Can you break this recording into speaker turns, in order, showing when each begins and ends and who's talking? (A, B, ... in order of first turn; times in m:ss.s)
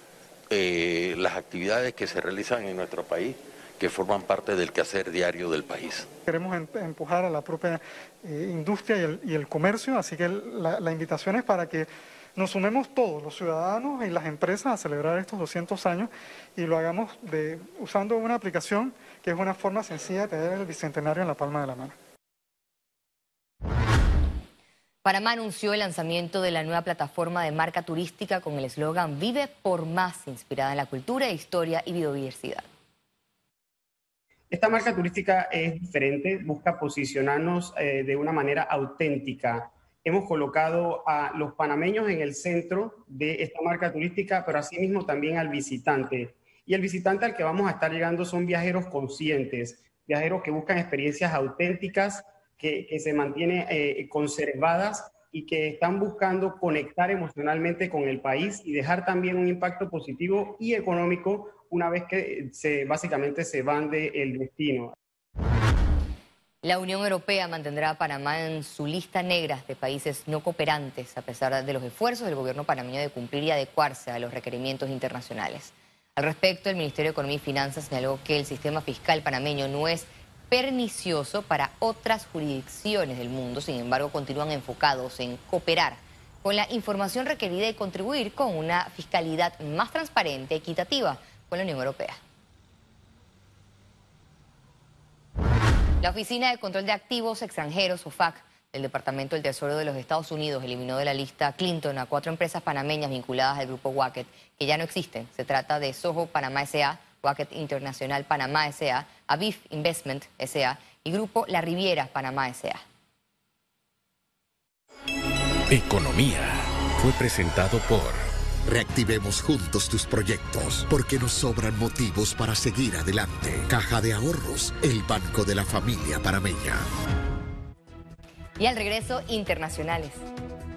0:00.5-0:06.1 A
0:06.3-0:11.8 B
0:12.4-0:21.9 B
0:25.0-0:32.6 C
0:34.5-1:04.9 D
1:06.6-1:32.2 C
1:36.0-1:52.8 C
1:55.7-1:58.2 A
1:58.7-2:06.8 E
2:08.6-2:10.2 C